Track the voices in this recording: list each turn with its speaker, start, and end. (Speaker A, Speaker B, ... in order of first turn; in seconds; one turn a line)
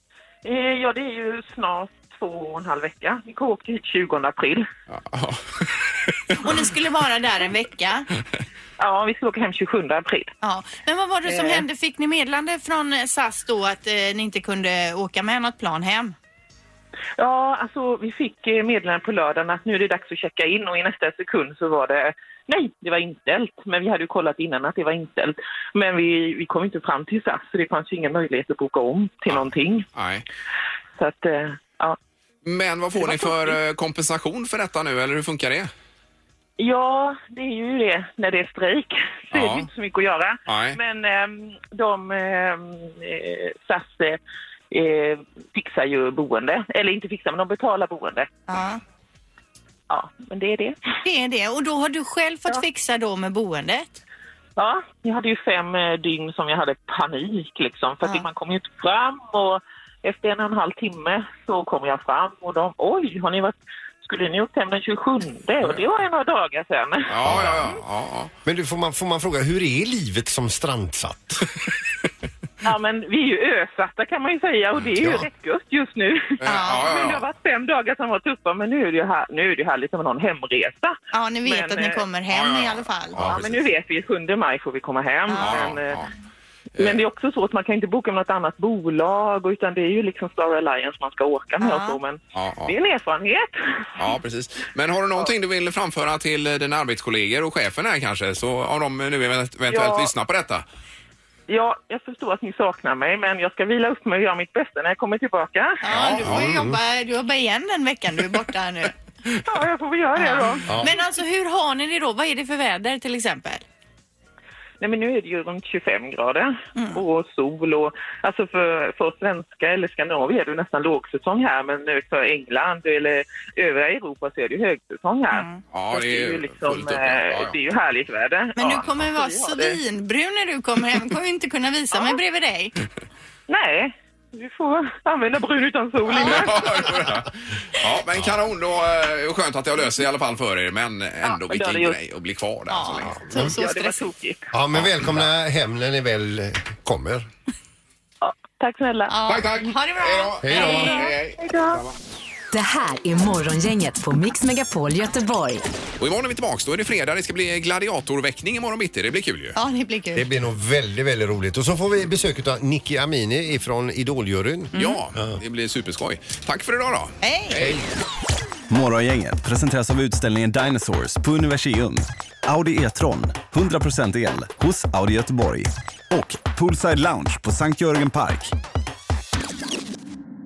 Speaker A: 0.4-4.7
Speaker B: 4.9-6.3
Speaker C: 6.4-8.1
Speaker A: 8.8-10.3
Speaker C: 10.4-16.1
Speaker A: 11.2-11.6
Speaker A: 17.2-29.9
Speaker B: 29.3-30.2
Speaker A: 31.0-32.0
Speaker B: 32.4-35.7
Speaker A: 33.0-33.6
Speaker A: 36.6-44.2
Speaker B: 39.3-39.7
Speaker B: 40.5-40.8
Speaker A: 44.7-48.4
Speaker C: 48.5-48.8
Speaker A: 49.9-50.8
Speaker C: 51.0-54.0
Speaker A: 54.6-67.1
Speaker B: 67.1-68.3
Speaker D: 67.2-67.7
Speaker D: 68.4-71.5
Speaker A: 72.6-82.0
Speaker D: 75.0-75.2
Speaker B: 76.4-77.2
Speaker C: 76.5-76.9
Speaker C: 81.1-83.2
Speaker B: 82.3-83.6
Speaker A: 83.2-86.0
Speaker C: 85.3-85.6
Speaker B: 85.4-86.1
Speaker A: 86.8-94.0
Speaker C: 91.6-92.0
Speaker B: 92.3-92.7
Speaker B: 94.0-100.6
Speaker A: 99.7-100.1
Speaker A: 101.5-105.8
Speaker C: 105.8-108.9
Speaker B: 105.9-106.4
Speaker D: 106.2-106.8
Speaker A: 109.4-110.7
Speaker C: 110.2-113.6
Speaker A: 114.8-129.8
Speaker C: 116.8-117.0
Speaker C: 125.3-125.6
Speaker B: 125.7-127.5
Speaker C: 128.6-132.7
Speaker A: 131.9-132.2
Speaker A: 133.5-136.7
Speaker B: 136.1-143.2
Speaker C: 136.2-136.4
Speaker A: 141.2-142.0
Speaker C: 142.7-144.0
Speaker A: 143.3-144.4
Speaker D: 144.5-147.2
Speaker B: 144.7-145.2
Speaker A: 148.2-149.1
Speaker C: 149.1-151.0
Speaker B: 149.3-151.9
Speaker D: 150.4-151.0
Speaker A: 150.5-151.8
Speaker E: 152.5-155.6
Speaker B: 156.0-159.6
Speaker C: 159.5-160.3
Speaker D: 160.1-164.7
Speaker C: 164.7-165.0
Speaker B: 164.7-167.8
Speaker C: 167.2-167.7
Speaker F: 168.7-178.5